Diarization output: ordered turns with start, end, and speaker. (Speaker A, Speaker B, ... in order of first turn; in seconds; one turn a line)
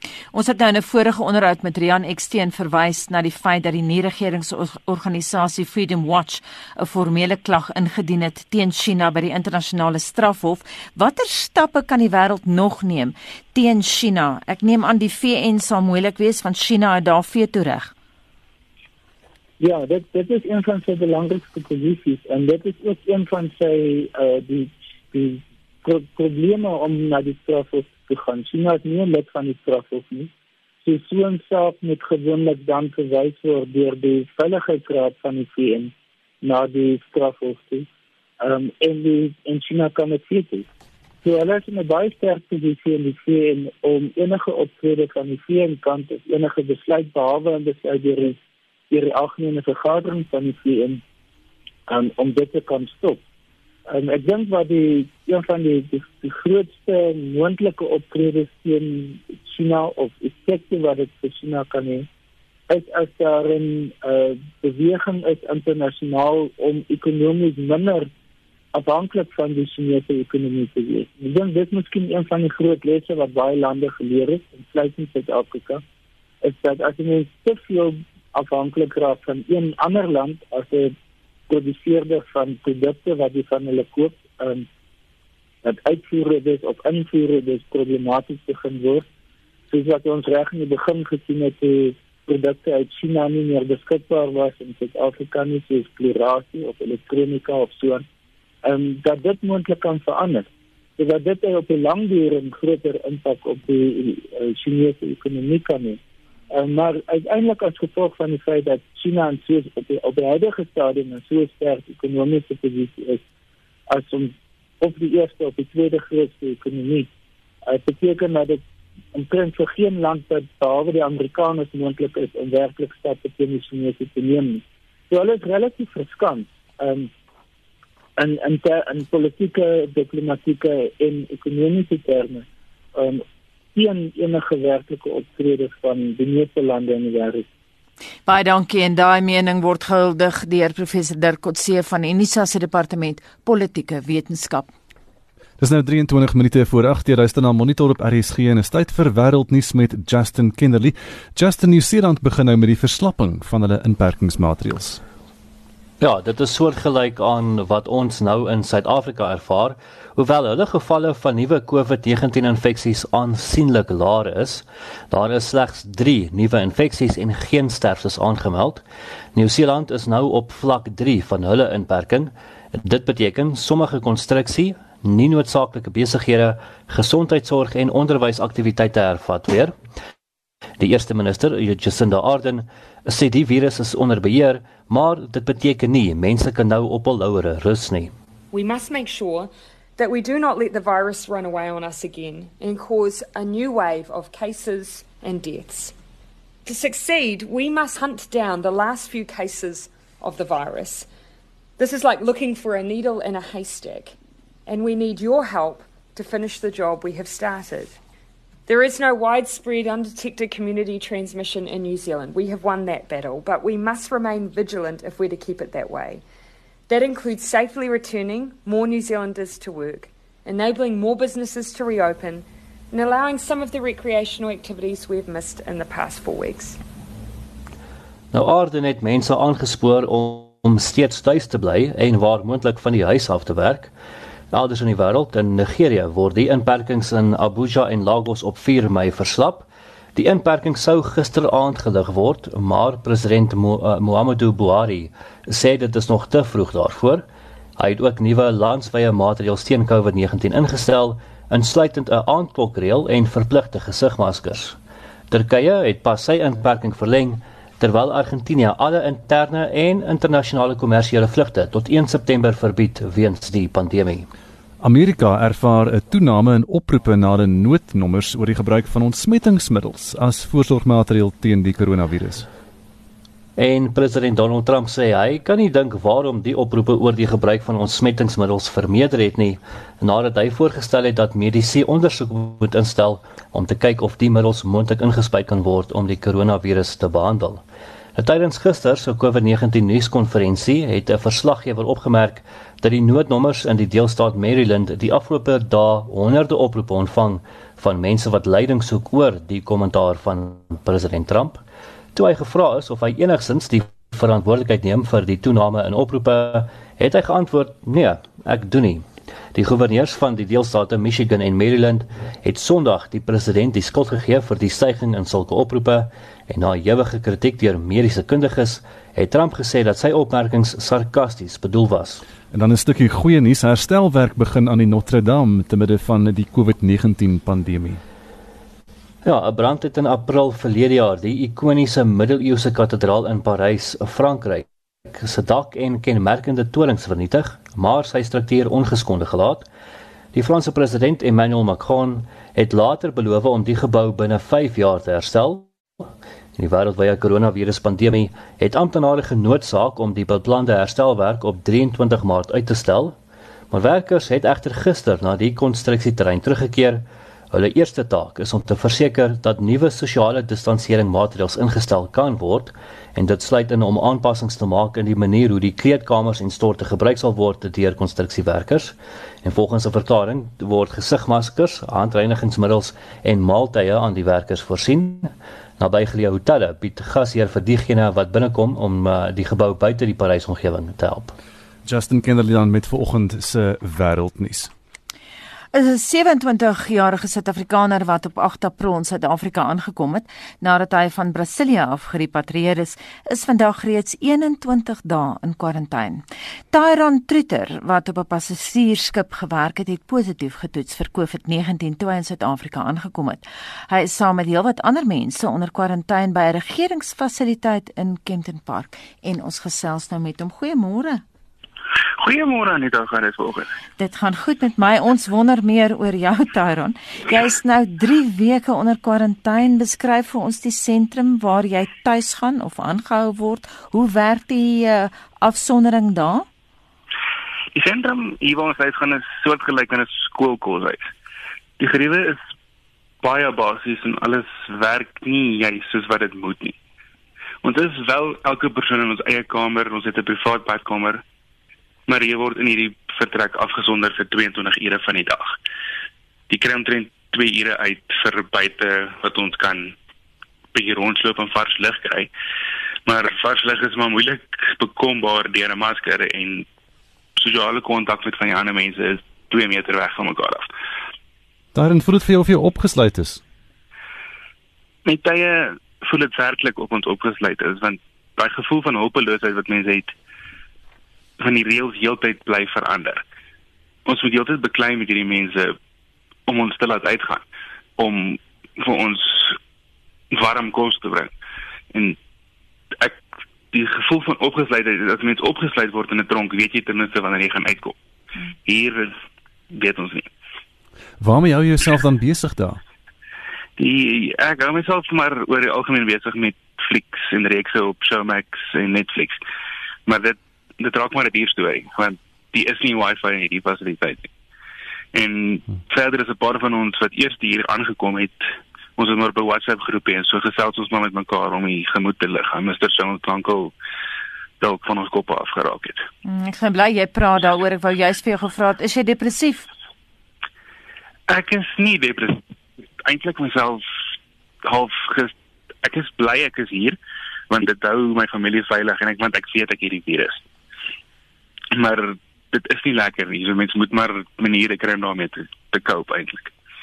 Speaker A: 0.3-17.9
Speaker B: 19.6-30.3
Speaker B: 30.8-37.9
Speaker B: 38.4-40.7
Speaker B: 41.2-48.4
Speaker B: 48.9-51.0
Speaker B: 51.9-53.2
Speaker B: 53.9-62.1
Speaker B: 62.7-68.1
Speaker B: 68.7-75.8
Speaker B: 76.4-80.9
Speaker B: 81.5-84.7
Speaker B: 85.6-89.1
Speaker B: 89.7-98.0
Speaker B: 98.6-106.0
Speaker B: 106.5-113.2
Speaker B: 113.9-117.1
Speaker B: 117.6-118.6
Speaker B: 119.1-127.1
Speaker B: 128.2-137.5
Speaker A: 138.3-144.7
Speaker C: 145.6-155.0
Speaker D: 156.0-168.8
Speaker D: 169.3-179.8
Speaker D: 180.8-188.1
Speaker E: 188.5-195.9
Speaker E: 196.6-201.1
Speaker E: 201.8-204.2
Speaker E: 204.7-208.0
Speaker E: 208.7-216.2
Speaker E: 216.9-226.8
Speaker D: 228.3-233.9
Speaker D: 234.5-247.2
Speaker D: 247.8-254.8
Speaker D: 255.3-264.3
Speaker C: 264.8-272.5
Speaker D: 273.6-287.6
Speaker D: 288.1-301.6
Speaker D: 302.1-322.2
Speaker C: 322.5-328.0
Speaker D: 329.2-339.7
Speaker D: 340.3-346.1
Speaker D: 346.6-353.2
Speaker D: 353.7-381.4
Speaker C: 381.9-384.7
Speaker A: 385.7-411.2
Speaker F: 412.2-413.7
Speaker A: 414.0-426.4
Speaker F: 427.8-431.1
Speaker F: 431.8-432.4
Speaker F: 433.2-436.8
Speaker F: 437.6-441.2
Speaker F: 442.1-445.6
Speaker F: 446.5-450.0
Speaker F: 450.7-452.3
Speaker F: 453.1-456.7
Speaker F: 457.4-460.7
Speaker C: 461.7-463.4
Speaker F: 465.1-470.1
Speaker F: 471.4-473.2
Speaker F: 474.1-475.8
Speaker F: 476.5-477.4
Speaker F: 478.0-479.6
Speaker F: 480.3-481.3
Speaker F: 481.9-482.2
Speaker F: 482.9-488.0
Speaker F: 488.6-489.1
Speaker F: 489.7-490.3
Speaker C: 491.2-492.8
Speaker F: 493.8-499.4
Speaker F: 500.1-504.3
Speaker F: 505.1-508.4
Speaker F: 509.0-513.7
Speaker F: 514.6-516.0
Speaker A: 516.2-519.7
Speaker F: 521.3-522.4
Speaker F: 523.0-523.9
Speaker F: 524.6-527.0
Speaker F: 527.5-530.4
Speaker F: 531.7-536.5